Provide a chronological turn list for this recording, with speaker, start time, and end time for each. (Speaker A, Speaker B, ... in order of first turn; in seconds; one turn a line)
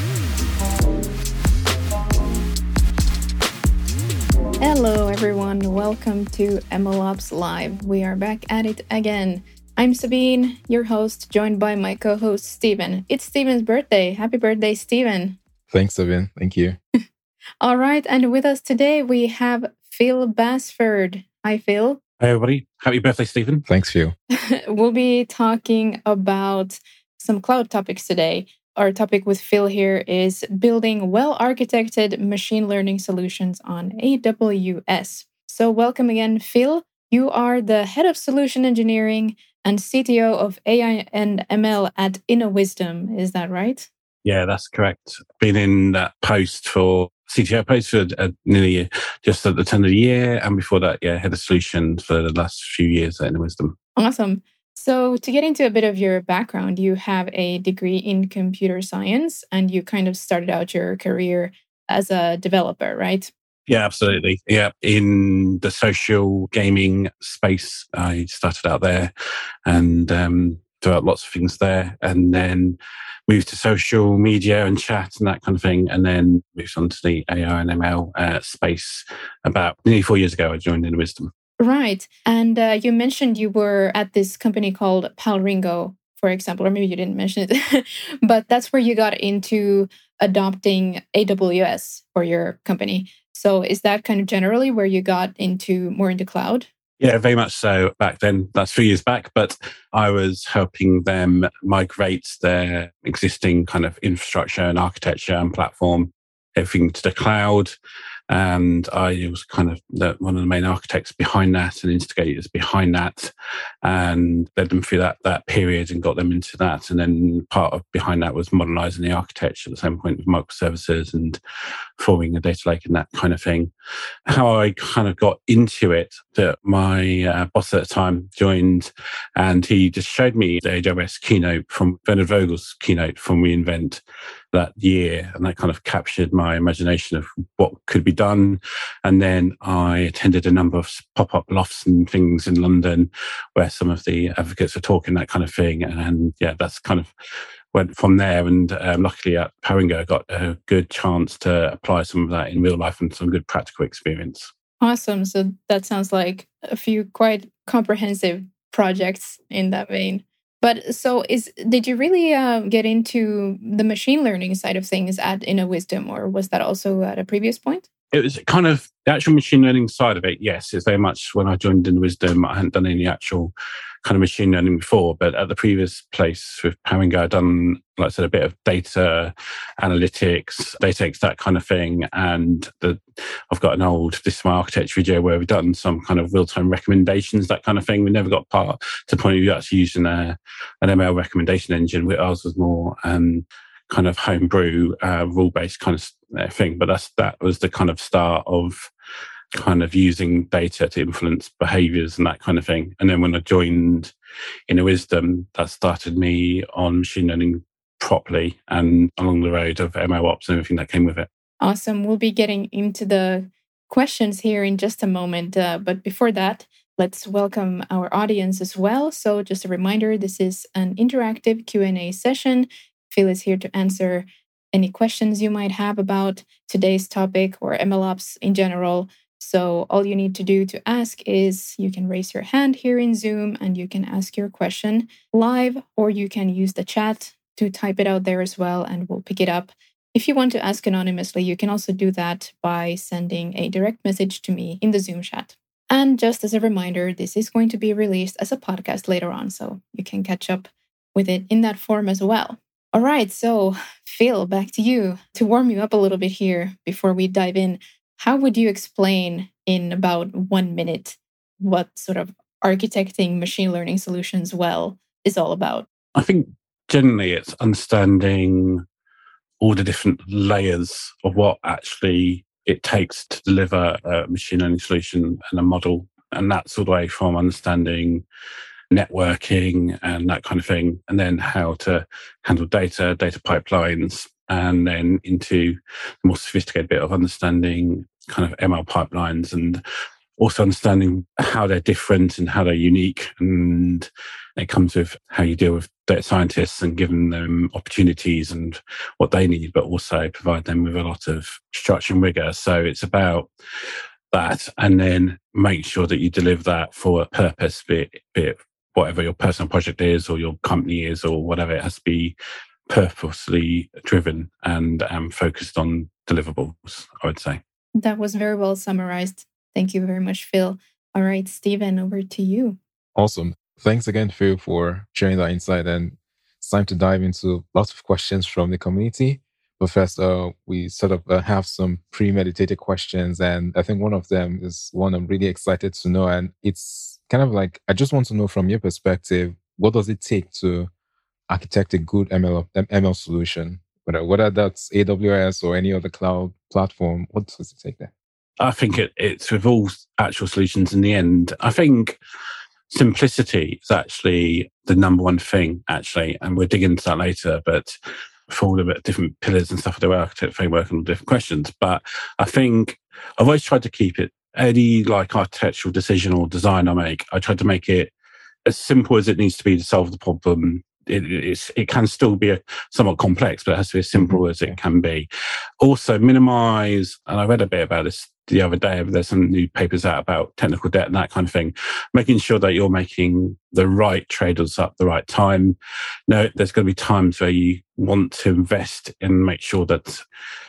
Speaker A: 4.6-15.4
Speaker B: 15.7-16.8
Speaker A: 17.6-22.0
Speaker C: 22.2-23.6
Speaker B: 23.7-24.1
Speaker A: 24.3-43.9
Speaker C: 44.2-53.8
Speaker A: 54.0-63.3
Speaker C: 63.7-69.1
Speaker C: 69.7-72.8
Speaker C: 73.3-81.3
Speaker A: 81.6-96.7
Speaker C: 97.0-107.7
Speaker C: 108.3-113.3
Speaker C: 113.8-121.4
Speaker C: 122.0-123.7
Speaker C: 124.3-134.0
Speaker C: 134.5-147.1
Speaker C: 147.7-154.5
Speaker A: 154.8-167.9
Speaker C: 168.1-173.5
Speaker C: 174.1-183.0
Speaker C: 183.5-198.9
Speaker C: 199.5-204.1
Speaker C: 204.7-211.3
Speaker A: 211.6-265.9
Speaker C: 266.1-268.8
Speaker C: 269.6-278.2
Speaker C: 278.9-289.8
Speaker C: 290.4-303.5
Speaker C: 304.3-312.3
Speaker C: 312.9-317.6
Speaker A: 318.0-322.8
Speaker B: 323.1-340.9
Speaker B: 341.5-348.1
Speaker C: 348.6-352.2
Speaker C: 352.9-357.9
Speaker C: 358.5-368.1
Speaker C: 368.7-375.3
Speaker B: 374.1-374.8
Speaker C: 375.8-385.8
Speaker C: 386.3-390.2